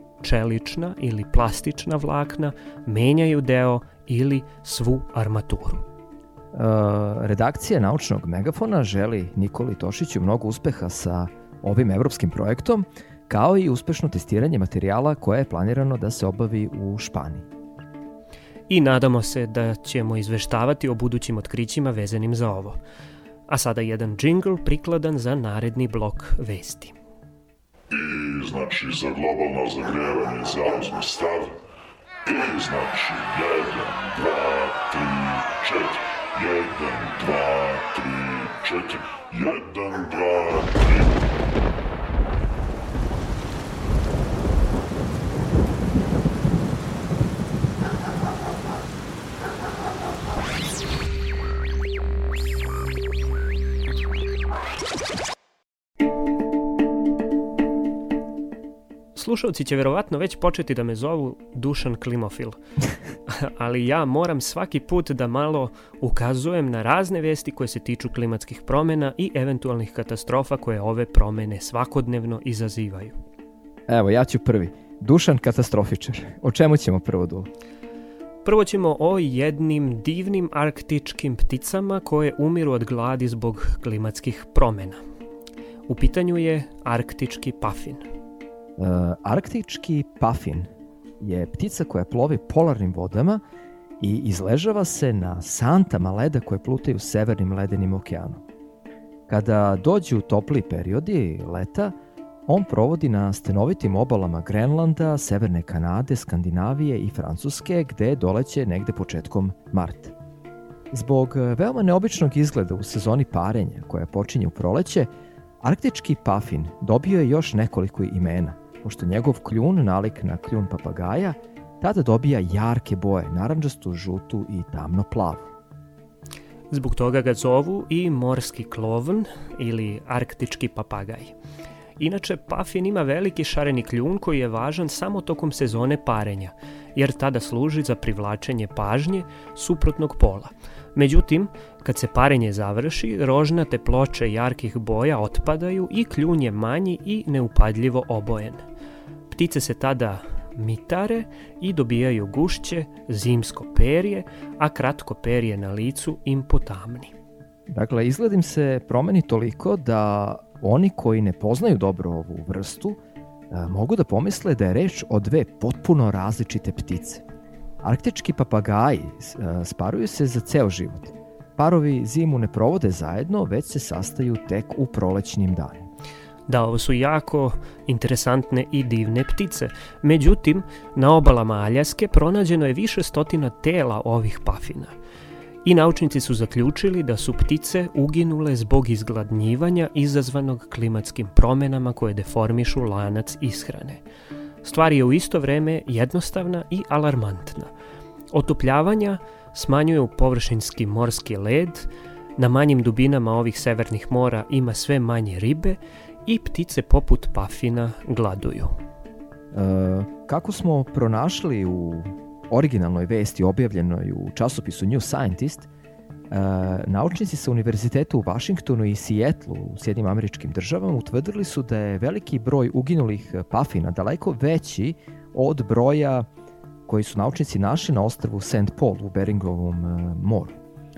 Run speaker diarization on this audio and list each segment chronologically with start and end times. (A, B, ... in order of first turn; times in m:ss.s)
0:00.2-0:05.8 A
0:06.5-0:17.5 B
0:18.7-0:22.8 A
0:23.5-0:26.9 A
0:27.9-0:31.6 C
0:32.2-0:41.1 C
0:59.1-1:02.6 A
1:03.3-1:13.2 A
1:13.9-1:17.5 B
1:18.4-1:25.0 A
1:25.9-1:28.0 A
1:28.8-1:30.7 B
1:31.2-1:33.4 B
1:34.0-1:38.4 B
1:39.3-1:41.9 B
1:42.5-1:50.1 B
1:50.9-1:55.1 B
1:55.6-2:05.5 B
2:06.7-2:11.3 A
2:12.0-2:28.6 A
2:29.3-2:37.1 A
2:37.7-2:43.0 B
2:43.5-2:47.2 B
2:47.8-2:55.9 B
2:56.5-3:04.9 A
3:05.6-3:14.0 A
3:14.6-3:17.7 A
3:18.3-3:28.8 A
3:29.5-3:35.7 B
3:36.3-3:46.3 B
3:46.9-3:50.6 B